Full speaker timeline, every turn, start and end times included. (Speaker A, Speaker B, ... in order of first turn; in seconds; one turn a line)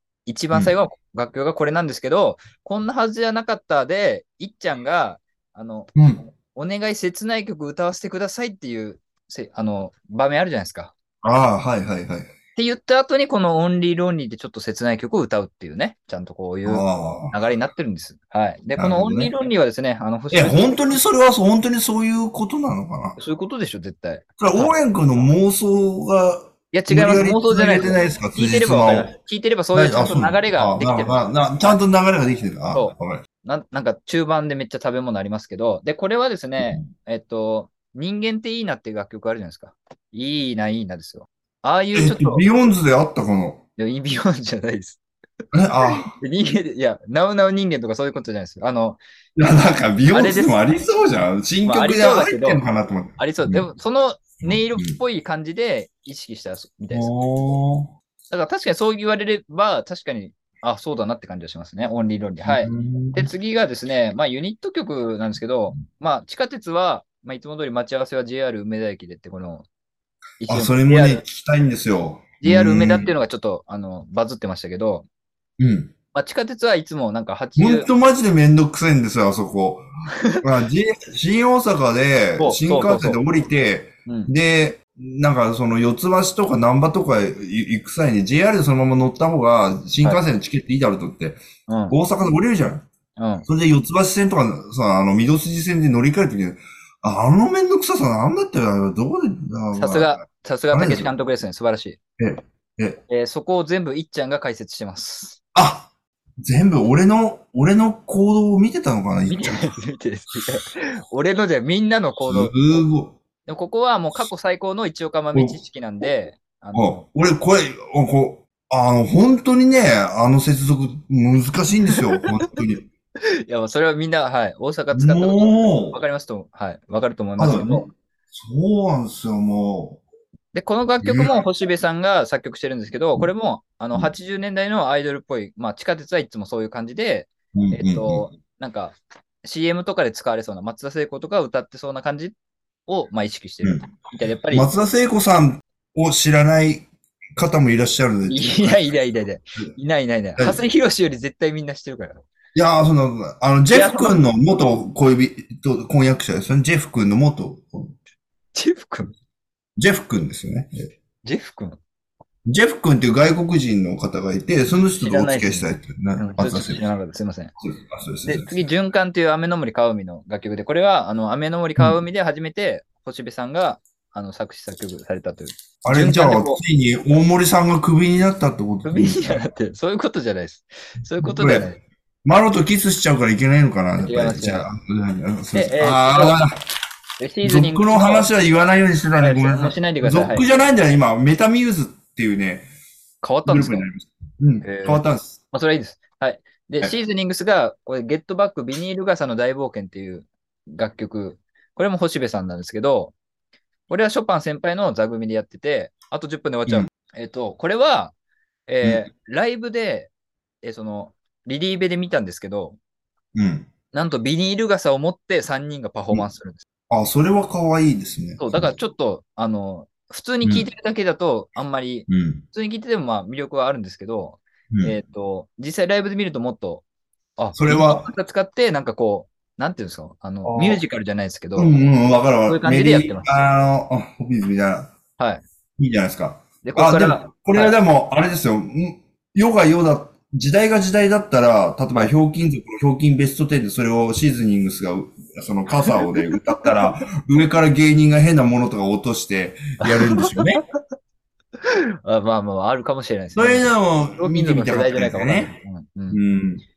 Speaker A: 0.3-10.9
Speaker B: 6.0-6.2
Speaker B: 11.2-12.3
Speaker A: 12.6-21.0
Speaker B: 16.7-17.4
Speaker B: 18.8-19.4
Speaker B: 20.3-23.2
Speaker A: 23.2-24.8
Speaker B: 24.4-29.1
Speaker A: 26.7-31.8
Speaker B: 29.7-33.2
Speaker A: 32.7-42.5
Speaker B: 36.6-36.9
Speaker B: 42.0-43.6
Speaker A: 43.8-45.0
Speaker B: 45.5-46.1
Speaker A: 45.9-49.0
Speaker B: 49.4-53.7
Speaker A: 50.1-50.6
Speaker A: 51.6-52.6
Speaker A: 53.2-57.1
Speaker B: 54.4-55.0
Speaker B: 56.9-57.9
Speaker A: 58.3-69.7
Speaker B: 62.4-63.3
Speaker A: 70.4-71.2
Speaker B: 70.5-73.1
Speaker A: 72.4-75.1
Speaker B: 75.6-75.9
Speaker A: 76.1-77.9
Speaker B: 77.6-79.9
Speaker B: 80.4-92.9
Speaker A: 82.4-83.2
Speaker A: 91.7-92.0
Speaker A: 93.2-93.5
Speaker B: 93.5-100.2
Speaker A: 99.7-102.0
Speaker B: 100.7-101.1
Speaker B: 102.2-103.0
Speaker A: 103.1-105.4
Speaker B: 105.5-105.9
Speaker B: 106.4-109.7
Speaker A: 109.3-112.8
Speaker B: 112.3-113.2
Speaker A: 113.5-117.0
Speaker B: 115.3-115.6
Speaker B: 116.7-122.9
Speaker A: 122.0-122.3
Speaker A: 123.5-127.9
Speaker B: 124.9-126.0
Speaker B: 127.4-130.0
Speaker A: 130.5-142.4
Speaker B: 131.0-131.4
Speaker B: 137.6-138.2
Speaker A: 142.9-144.7
Speaker B: 143.6-143.9
Speaker B: 144.5-148.9
Speaker A: 148.3-152.3
Speaker B: 152.6-157.9
Speaker A: 153.7-154.2
Speaker A: 158.5-159.1
Speaker B: 159.8-160.9
Speaker A: 161.2-161.8
Speaker B: 162.5-166.8
Speaker A: 165.0-167.5
Speaker B: 167.6-168.6
Speaker A: 168.2-176.6
Speaker B: 175.8-179.5
Speaker A: 178.8-181.8
Speaker B: 181.2-181.7
Speaker B: 182.2-186.6
Speaker A: 184.0-184.7
Speaker A: 185.5-186.4
Speaker A: 187.2-188.3
Speaker B: 187.4-192.7
Speaker A: 189.2-190.4
Speaker A: 193.2-193.9
Speaker B: 193.5-195.4
Speaker A: 194.6-203.1
Speaker A: 203.9-208.1
Speaker A: 208.7-210.1
Speaker A: 210.6-212.8
Speaker B: 213.3-213.7
Speaker A: 213.9-216.6
Speaker B: 216.9-218.7
Speaker A: 218.4-226.8
Speaker B: 222.1-222.4
Speaker A: 227.4-231.7
Speaker B: 227.6-228.1
Speaker B: 230.4-230.8
Speaker B: 231.6-234.9
Speaker A: 232.5-233.3
Speaker A: 235.2-235.4
Speaker B: 235.8-250.6
Speaker A: 236.6-237.8
Speaker A: 245.9-246.8
Speaker A: 249.8-250.5
Speaker A: 251.6-256.2
Speaker B: 253.3-255.6
Speaker B: 256.1-256.6